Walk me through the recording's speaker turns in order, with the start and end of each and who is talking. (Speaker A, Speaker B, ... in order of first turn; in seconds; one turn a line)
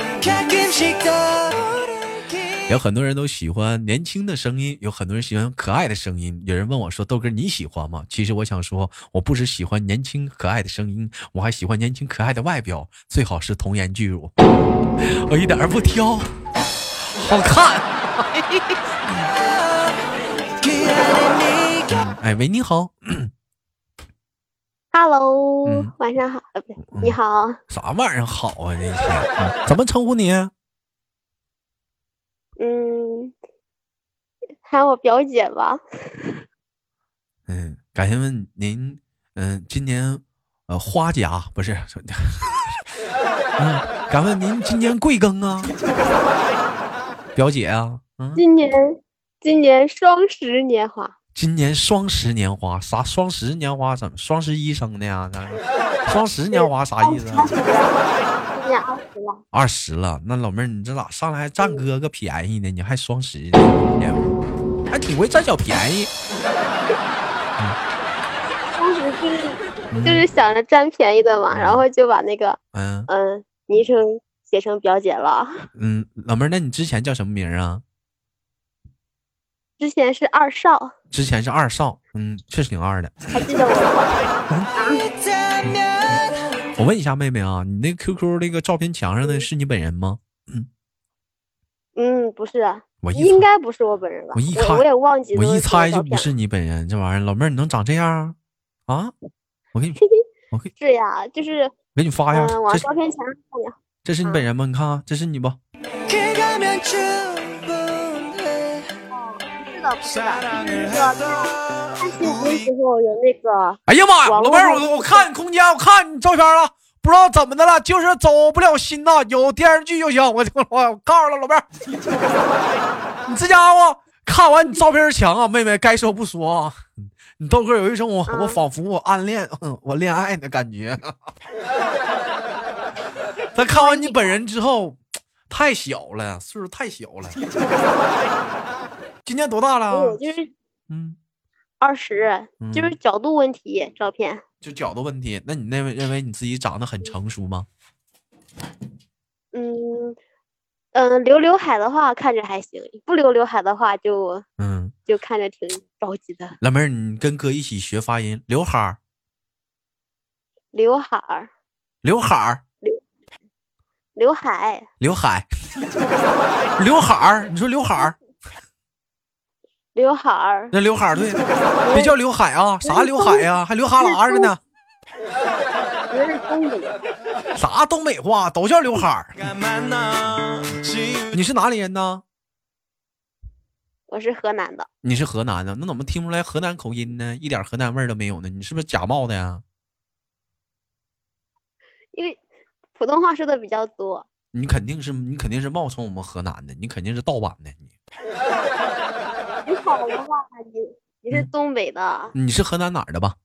Speaker A: 0.2-2.7
Speaker B: 2.7-14.3
Speaker B: 15.0-16.3
Speaker B: 17.0-19.3
Speaker A: 19.3-22.0
Speaker B: 21.9-23.3
Speaker C: 24.9-27.6
Speaker B: 25.6-25.9
Speaker B: 26.9-27.2
Speaker B: 27.7-30.5
Speaker C: 32.6-33.4
Speaker C: 34.7-36.4
Speaker B: 37.5-42.8
Speaker B: 43.6-45.7
Speaker B: 47.4-48.4
Speaker C: 48.4-51.1
Speaker B: 51.4-57.5
Speaker C: 56.5-57.9
Speaker C: 58.5-59.4
Speaker B: 59.5-64.3
Speaker B: 64.9-66.1
Speaker C: 68.7-75.7
Speaker B: 69.9-70.3
Speaker B: 71.5-71.8
Speaker B: 72.7-73.1
Speaker B: 75.8-77.8
Speaker C: 79.8-80.9
Speaker B: 81.1-83.2
Speaker C: 83.3-84.1
Speaker C: 84.8-85.0
Speaker A: 84.9-86.7
Speaker B: 86.8-90.7
Speaker C: 92.0-96.3
Speaker B: 93.0-93.5
Speaker B: 94.3-98.4
Speaker B: 98.9-99.1
Speaker B: 99.7-100.0
Speaker C: 100.8-101.8
Speaker B: 102.0-102.9
Speaker C: 102.3-104.5
Speaker B: 104.0-105.6
Speaker A: 106.1-108.9
Speaker C: 109.1-115.3
Speaker B: 113.9-121.7
Speaker B: 123.3-131.3
Speaker C: 128.3-128.6
Speaker B: 133.6-137.4
Speaker C: 133.6-134.4
Speaker B: 139.2-140.2
Speaker C: 139.9-140.5
Speaker B: 140.9-141.2
Speaker C: 141.8-144.4
Speaker B: 142.6-143.0
Speaker B: 144.6-147.7
Speaker C: 149.5-150.2
Speaker C: 150.9-154.4
Speaker B: 154.6-154.9
Speaker C: 155.1-156.6
Speaker B: 156.6-159.0
Speaker C: 160.7-161.5
Speaker B: 162.0-162.6
Speaker C: 164.2-164.9
Speaker B: 165.0-165.5
Speaker B: 166.8-168.2
Speaker C: 169.9-170.7
Speaker B: 170.7-171.4
Speaker C: 171.8-172.2
Speaker B: 171.9-174.6
Speaker C: 172.8-173.5
Speaker C: 174.0-174.5
Speaker C: 176.1-177.0
Speaker B: 177.6-179.5
Speaker B: 181.3-182.2
Speaker C: 184.1-184.9
Speaker B: 185.0-189.6
Speaker C: 193.0-194.3
Speaker B: 194.5-197.9
Speaker C: 199.7-202.3
Speaker B: 202.3-203.4